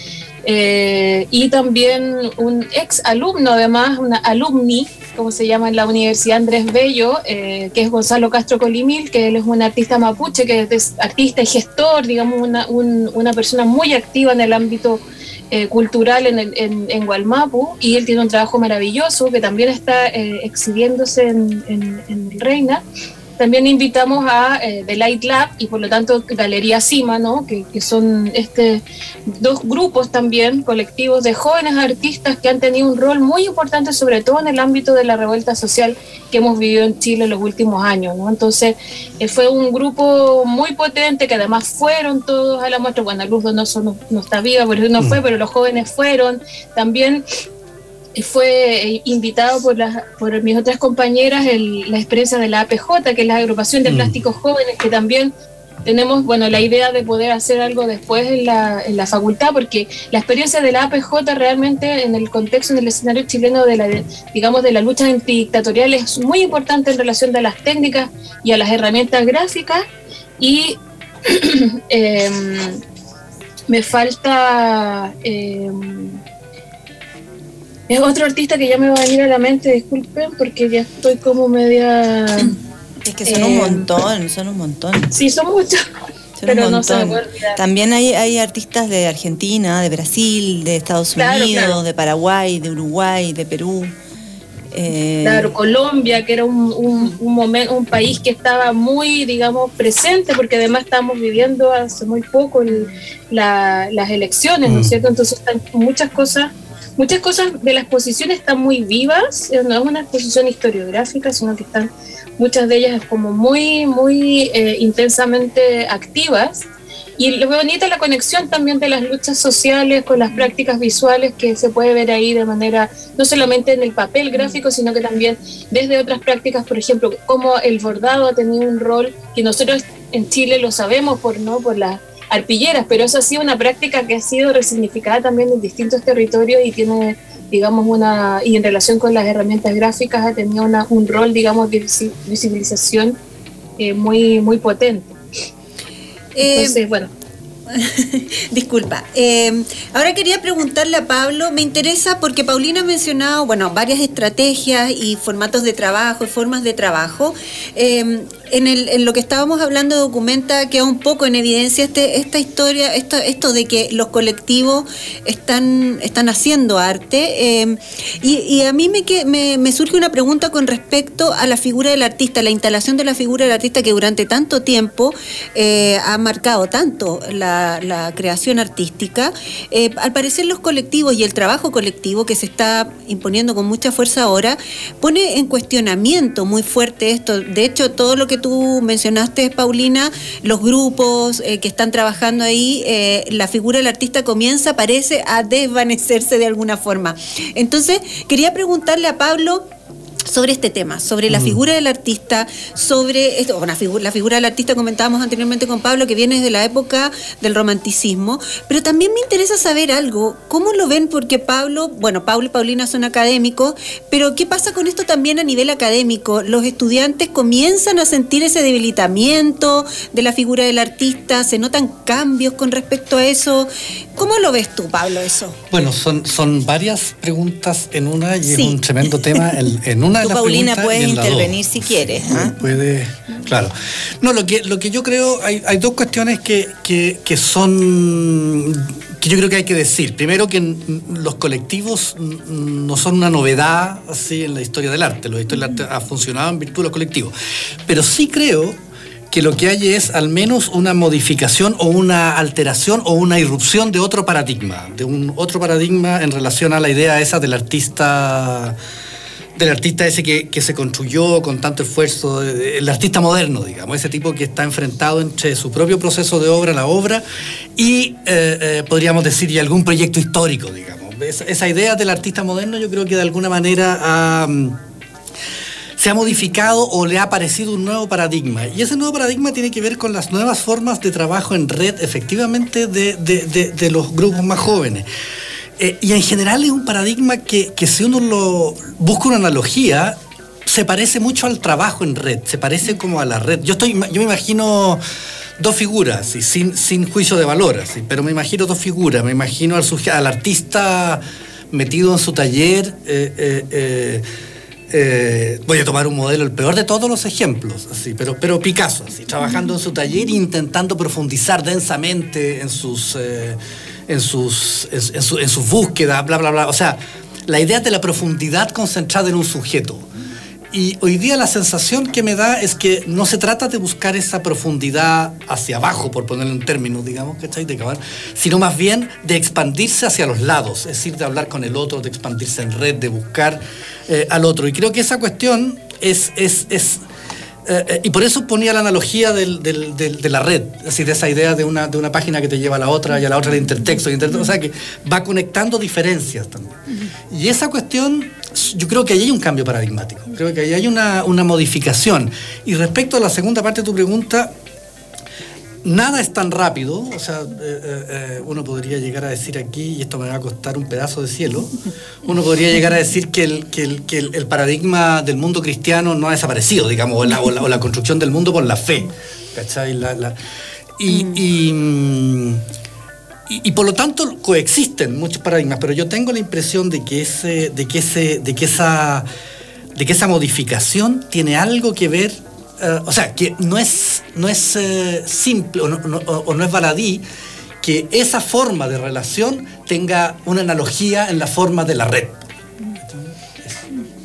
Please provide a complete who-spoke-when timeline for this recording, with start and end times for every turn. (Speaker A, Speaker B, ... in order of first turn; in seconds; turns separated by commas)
Speaker A: 0.4-22.8, Speaker A: 23.4-47.2, Speaker A: 48.1-55.3, Speaker B: 53.9-54.2, Speaker A: 55.9-69.8, Speaker A: 70.4-72.8, Speaker A: 73.7-76.2, Speaker A: 77.9-82.6, Speaker C: 83.0-85.1, Speaker A: 83.3-83.9, Speaker A: 85.1-85.8, Speaker C: 86.4-93.9, Speaker A: 86.5-87.6, Speaker A: 91.2-91.8, Speaker C: 94.7-95.5, Speaker A: 95.2-116.7, Speaker B: 104.7-104.9, Speaker A: 117.2-143.2, Speaker A: 143.8-145.2, Speaker D: 146.3-146.8, Speaker A: 146.4-147.1, Speaker D: 147.7-199.7, Speaker D: 200.3-225.6, Speaker B: 201.3-201.6, Speaker B: 225.7-247.3, Speaker D: 228.5-228.8, Speaker C: 230.2-232.6, Speaker B: 247.9-248.8, Speaker B: 249.3-258.8, Speaker B: 259.6-267.2, Speaker B: 267.8-274.8, Speaker B: 276.0-285.1, Speaker B: 285.8-295.0, Speaker B: 295.6-304.2, Speaker B: 304.9-320.1, Speaker B: 320.7-337.0, Speaker B: 337.6-354.5, Speaker B: 355.8-370.4, Speaker B: 371.0-372.6, Speaker B: 373.5-379.3, Speaker B: 379.9-387.2, Speaker B: 387.8-393.9